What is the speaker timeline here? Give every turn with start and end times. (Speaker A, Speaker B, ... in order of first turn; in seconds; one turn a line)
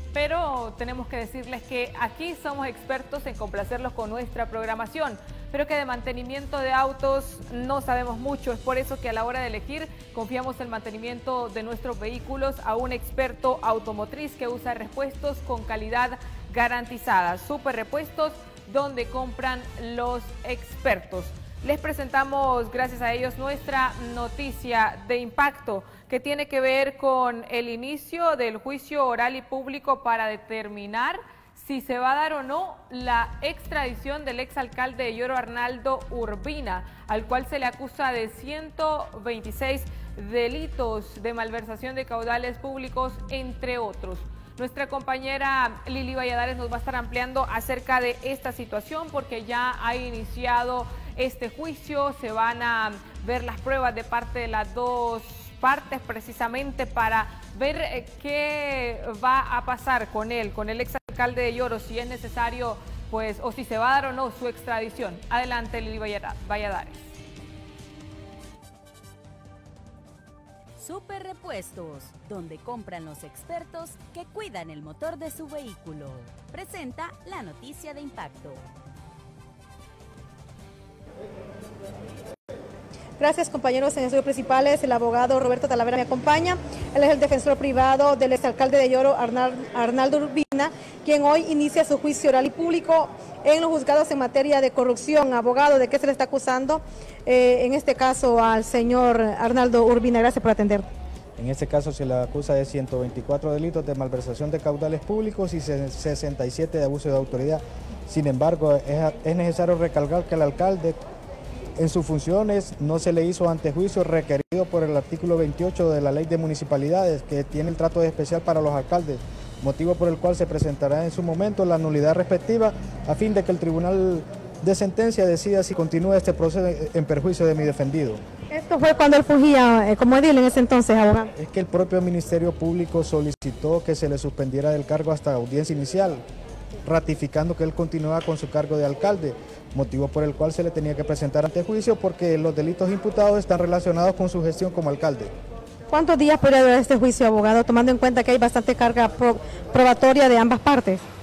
Speaker A: 0.1-67.1
Speaker B: 70.8-78.6
Speaker C: 83.2-100.9
Speaker D: 101.4-111.0
Speaker D: 111.8-128.2
Speaker C: 128.5-131.3
Speaker D: 131.4-136.2
Speaker D: 136.8-145.3
Speaker C: 145.9-151.0